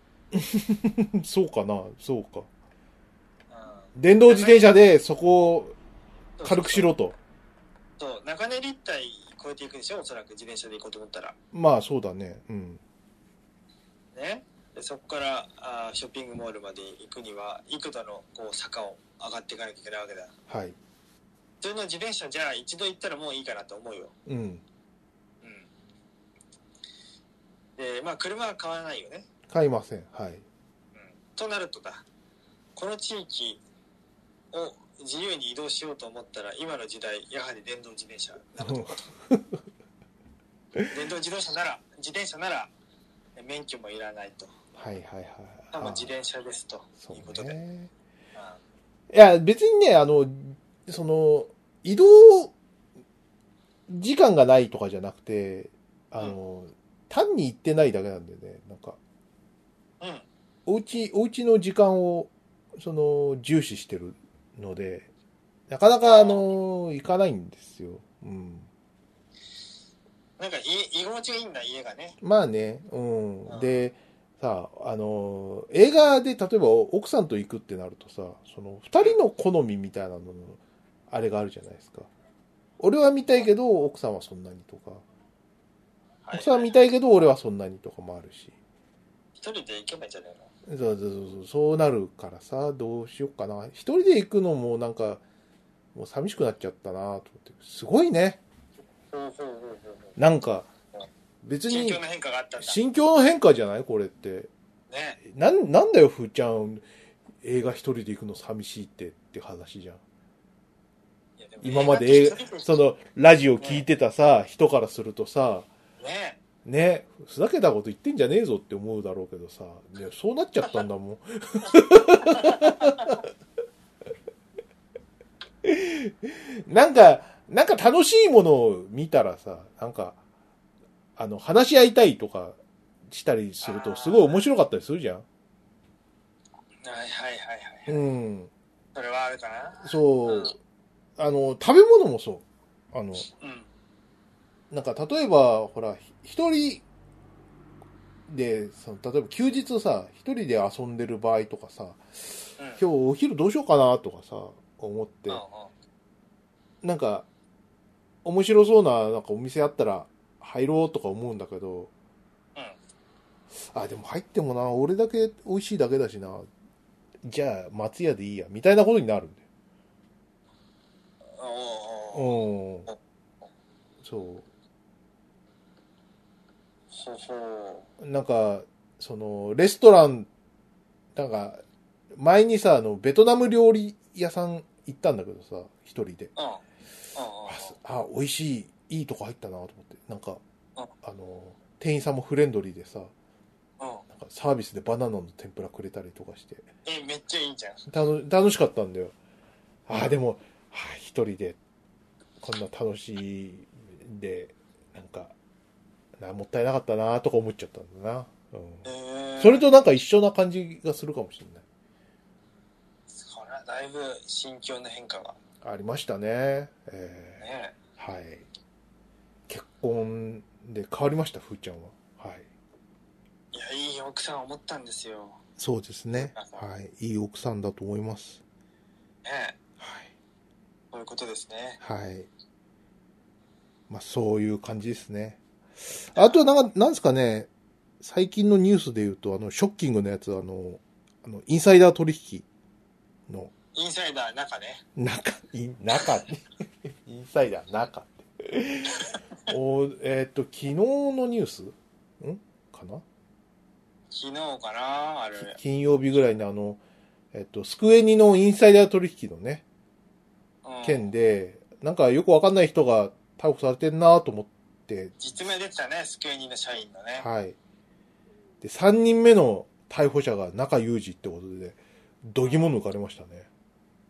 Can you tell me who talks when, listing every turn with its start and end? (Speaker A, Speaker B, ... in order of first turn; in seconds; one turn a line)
Speaker A: 0.3-2.5
Speaker B: 3.5-4.7
Speaker A: 4.0-5.8
Speaker B: 6.4-6.9
Speaker A: 6.5-7.2
Speaker B: 8.0-11.4
Speaker A: 11.5-12.8
Speaker B: 14.1-20.3
Speaker A: 20.5-20.8
Speaker B: 21.6-24.1
Speaker A: 24.3-24.6
Speaker B: 25.4-25.7
Speaker B: 27.8-29.3
Speaker A: 29.5-30.4
Speaker B: 31.0-32.0
Speaker B: 32.8-33.6
Speaker B: 34.5-39.1
Speaker A: 38.6-39.6
Speaker B: 40.9-42.7
Speaker B: 43.4-44.5
Speaker A: 44.8-46.1
Speaker B: 45.7-47.6
Speaker A: 47.0-47.9
Speaker B: 48.4-48.6
Speaker A: 49.1-52.5
Speaker A: 53.9-59.0
Speaker B: 60.0-60.3
Speaker A: 60.7-65.1
Speaker A: 65.7-68.7
Speaker B: 66.0-66.4
Speaker B: 70.4-72.2
Speaker A: 72.2-82.1
Speaker B: 73.5-73.8
Speaker A: 82.8-85.0
Speaker B: 86.2-86.8
Speaker A: 86.3-88.5
Speaker B: 89.4-90.5
Speaker A: 90.7-95.2
Speaker A: 96.0-98.4
Speaker B: 99.1-100.1
Speaker A: 100.2-100.7
Speaker A: 101.4-102.0
Speaker B: 101.7-102.8
Speaker A: 102.6-104.5
Speaker B: 104.9-105.2
Speaker A: 105.2-106.8
Speaker A: 107.4-110.0
Speaker B: 111.4-112.8
Speaker A: 111.6-115.7
Speaker B: 113.6-113.8
Speaker B: 116.0-116.4
Speaker A: 116.7-123.2
Speaker B: 122.2-123.1
Speaker A: 125.6-130.2
Speaker A: 131.2-132.6
Speaker A: 133.1-135.2
Speaker B: 133.6-134.4
Speaker B: 136.8-138.0
Speaker A: 137.9-138.5
Speaker B: 138.9-140.5
Speaker A: 139.8-140.6
Speaker A: 141.2-143.3
Speaker B: 143.3-143.7
Speaker A: 144.7-146.8
Speaker A: 148.3-152.0
Speaker A: 152.8-155.4
Speaker B: 155.3-155.7
Speaker A: 156.8-157.3
Speaker A: 158.2-161.9
Speaker A: 163.6-166.5
Speaker A: 167.2-169.4
Speaker B: 171.4-172.9
Speaker A: 172.1-172.9
Speaker A: 174.0-174.4
Speaker B: 176.9-177.9
Speaker A: 178.0-180.3
Speaker A: 181.2-181.6
Speaker A: 182.1-186.3
Speaker B: 186.4-186.6
Speaker B: 187.2-187.8
Speaker A: 187.5-190.4
Speaker A: 191.0-193.1
Speaker B: 193.8-194.1
Speaker A: 194.1-196.7
Speaker B: 196.8-197.9
Speaker A: 197.9-199.1
Speaker A: 199.9-201.6
Speaker A: 202.4-205.3
Speaker A: 206.2-208.9
Speaker B: 208.8-209.7
Speaker A: 209.4-211.6
Speaker B: 213.1-215.4
Speaker A: 215.6-217.4
Speaker B: 217.4-217.8
Speaker A: 218.0-218.5
Speaker A: 219.5-222.5
Speaker B: 223.5-225.4
Speaker A: 225.6-228.4
Speaker B: 226.2-226.6
Speaker B: 229.2-229.6
Speaker A: 229.8-230.1
Speaker B: 230.9-231.8
Speaker A: 231.8-232.3
Speaker A: 233.9-237.5
Speaker B: 236.2-236.6
Speaker A: 238.0-242.4
Speaker B: 243.7-244.8
Speaker A: 245.0-253.0
Speaker B: 254.1-255.6
Speaker A: 255.5-256.8
Speaker A: 257.3-259.6
Speaker B: 260.6-261.1
Speaker A: 260.8-265.1
Speaker B: 265.2-267.3
Speaker A: 267.2-267.6
Speaker A: 268.6-273.5